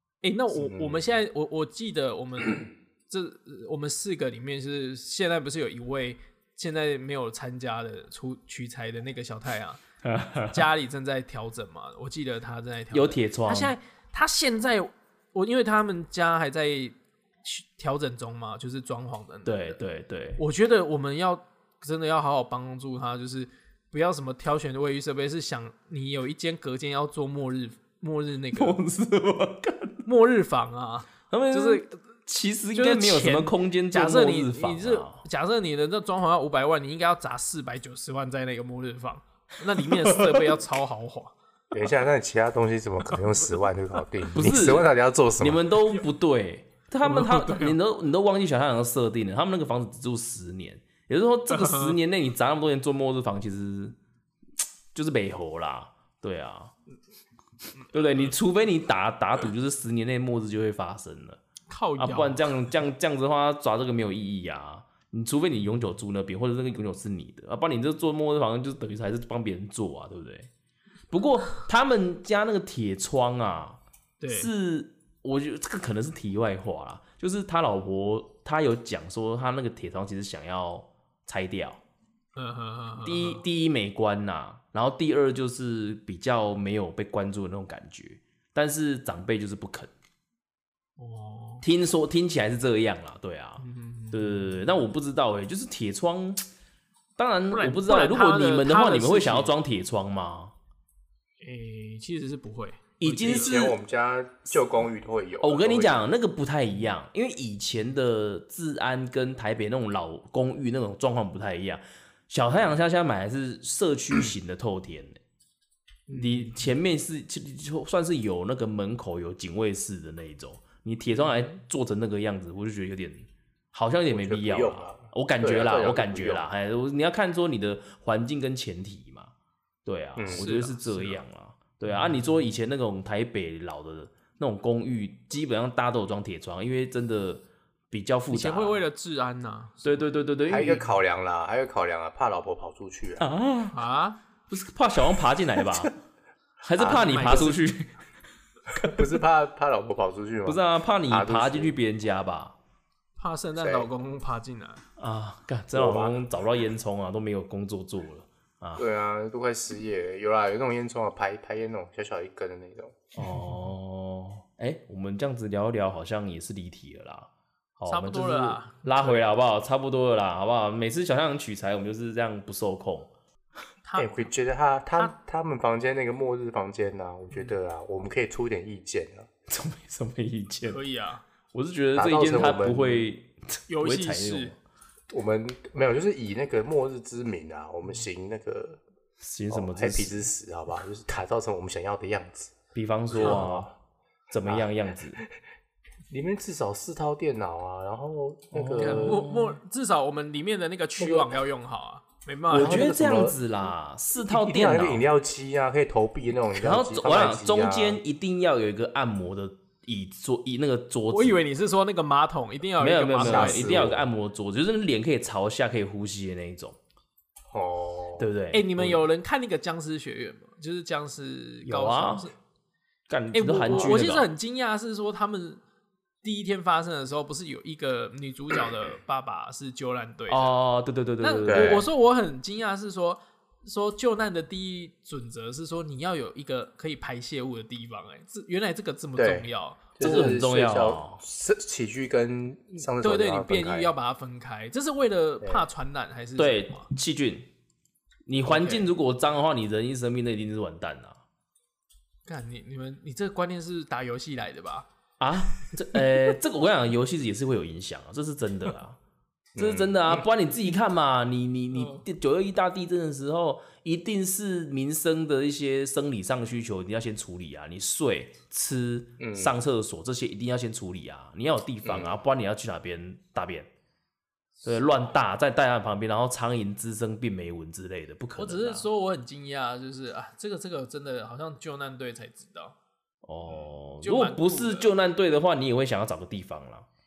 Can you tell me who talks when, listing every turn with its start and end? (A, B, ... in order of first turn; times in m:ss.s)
0:00.2-0:09.8 A
0:00.6-0:01.0 B
0:10.0-0:10.6 C
0:10.5-0:19.8 A
0:12.9-0:13.7 C
0:19.5-0:20.4 C
0:20.4-0:28.8 A
0:28.6-0:30.0 C
0:30.0-0:31.9 A
0:31.3-0:35.2 C
0:32.7-0:41.3 A
0:40.0-0:40.5 C
0:41.7-0:45.7 B
0:44.3-0:54.0 C
0:47.0-0:47.8 A
0:51.5-0:52.0 A
0:54.9-0:56.7 C
0:57.9-1:01.4 C
1:01.7-1:02.5 A
1:02.0-1:10.5 C
1:11.1-1:13.8 C
1:14.2-1:14.5 A
1:14.3-1:21.8 C
1:22.4-1:23.4 A
1:23.0-1:29.9 C
1:31.0-1:31.6 A
1:31.6-1:36.5 C
1:33.6-1:34.6 A
1:37.2-1:40.5 C
1:37.5-1:39.5 A
1:41.4-1:43.6 A
1:43.0-1:43.8 C
1:43.2-1:46.0 B
1:45.4-1:55.2 C
1:56.1-1:56.7 A
1:56.1-2:09.3 C
2:04.1-2:06.5 B
2:09.8-2:18.8 C
2:10.2-2:10.5 B
2:10.3-2:11.2 A
2:11.9-2:12.5 A
2:18.3-2:20.0 A
2:19.8-2:20.9 C
2:20.5-2:23.3 B
2:23.2-2:23.8 C
2:23.7-2:24.2 A
2:24.5-2:25.9 C
2:26.6-2:28.0 C
2:26.8-2:27.5 B
2:26.9-2:27.6 A
2:28.8-2:31.7 B
2:30.5-2:32.6 C
2:33.2-2:34.8 A
2:33.6-2:33.9 B
2:35.0-2:38.8 C
2:35.7-2:36.2 B
2:38.8-2:43.1 B
2:43.2-2:53.1 C
2:47.9-2:49.3 A
2:53.8-2:54.3 A
2:54.0-2:59.3 B
2:59.5-3:00.8 C
3:00.7-3:01.2 A
3:01.5-3:04.6 C
3:02.0-3:03.1 B
3:03.7-3:04.5 A
3:05.1-3:08.8 B
3:09.2-3:10.2 C
3:09.5-3:12.6 B
3:12.8-3:13.7 C
3:13.1-3:13.7 B
3:13.2-3:13.4 A
3:14.3-3:15.2 C
3:14.5-3:15.3 B
3:16.1-3:19.3 B
3:18.5-3:19.6 C
3:18.8-3:23.0 A
3:21.0-3:21.3 B
3:22.5-3:25.0 C
3:22.5-3:23.4 B
3:24.2-3:28.0 B
3:26.6-3:31.4 C
3:31.1-3:33.9 A
3:32.8-3:36.8 C
3:33.2-3:34.0 B
3:37.5-3:38.3 B
3:38.2-3:39.0 C
3:38.5-3:42.4 A
3:41.6-3:42.3 C
3:43.1-3:44.3 C
3:43.3-3:45.6 A
3:43.7-3:44.0 B
3:46.2-3:50.5 A
3:50.3-3:51.9 C
3:51.2-4:00.4 A
3:51.5-3:51.9 B
3:59.2-4:03.9 B
4:00.0-4:01.2 C
4:02.8-4:06.9 A
4:06.4-4:07.5 C
4:08.3-4:11.2 C
4:08.4-4:08.9 A
4:12.3-4:14.9 A
4:15.2-4:19.0 C
4:19.6-4:20.2 B
4:19.6-4:33.7 C
4:21.7-4:22.0 A
4:29.2-4:29.5 B
4:31.8-4:32.2 B
4:34.6-4:38.9 C
4:38.4-4:42.8 A
4:43.2-4:46.9 C
4:43.5-4:44.9 A